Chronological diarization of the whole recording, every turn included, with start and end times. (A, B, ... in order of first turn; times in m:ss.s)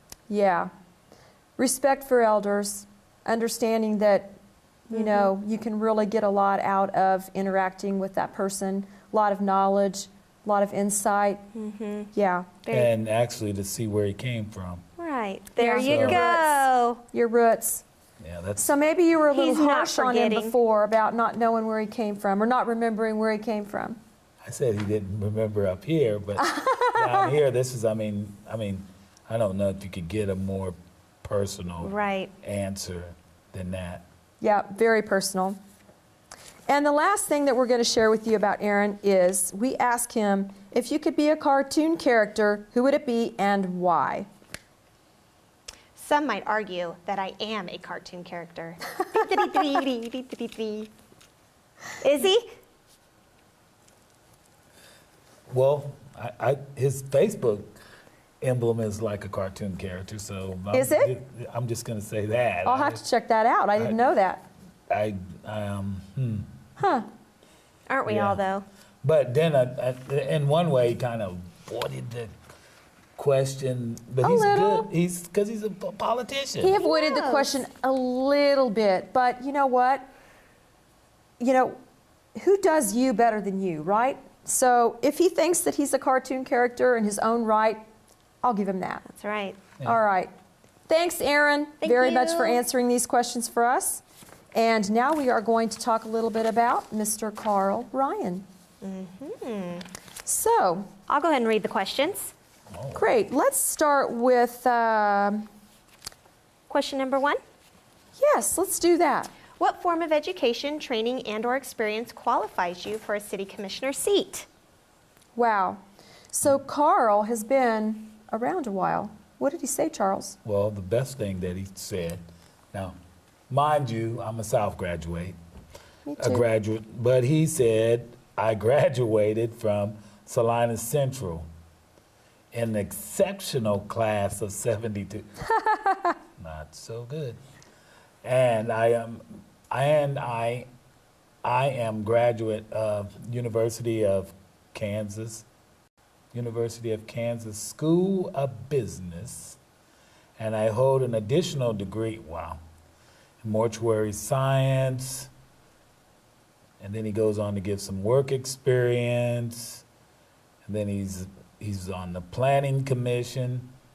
0:00.3-0:00.7 A
0:01.6-0:04.4 A
0:04.9-0:11.4 A
0:04.9-0:05.3 B
0:11.6-0:12.1 B
0:12.1-0:12.6 A
0:12.6-0:12.9 B
0:12.7-0:14.8 C
0:15.0-0:17.0 B
0:15.6-0:17.8 A
0:15.8-0:16.2 C
0:18.2-0:18.7 C
0:18.6-0:24.0 A
0:19.3-0:20.6 B
0:24.4-0:34.1 C
0:26.4-0:27.3 A
0:31.8-0:32.3 B
0:34.4-0:35.6 A
0:36.7-0:44.3 A
0:46.0-0:50.9 B
0:52.0-0:52.5 B
0:55.5-0:57.7 C
0:58.4-1:03.0 C
1:00.7-1:01.1 A
1:02.6-1:04.5 A
1:04.9-1:06.5 C
1:06.8-1:07.1 A
1:07.9-1:08.6 B
1:08.1-1:08.4 C
1:09.0-1:12.3 C
1:13.2-1:16.8 C
1:14.2-1:14.9 A
1:16.6-1:20.1 A
1:16.8-1:17.6 B
1:21.4-1:21.8 A
1:22.4-1:27.8 A
1:28.4-1:29.1 A
1:29.1-1:29.6 B
1:29.8-1:30.3 A
1:30.9-1:34.0 A
1:31.8-1:32.6 B
1:34.5-1:38.4 A
1:38.8-1:39.9 B
1:40.3-1:40.9 A
1:41.1-1:42.3 B
1:42.7-1:43.0 C
1:43.0-1:45.5 A
1:46.7-1:47.4 B
1:48.2-1:49.3 A
1:49.6-1:54.5 B
1:55.4-1:55.8 A
1:56.3-2:00.4 A
2:00.4-2:03.0 C
2:03.5-2:05.4 C
2:06.1-2:06.4 A
2:06.2-2:11.5 C
2:12.5-2:15.3 C
2:16.4-2:17.4 C
2:18.2-2:20.7 C
2:21.4-2:25.4 C
2:26.3-2:29.6 C
2:30.4-2:32.6 C
2:33.4-2:35.3 C
2:36.8-2:39.8 C
2:40.6-2:43.7 C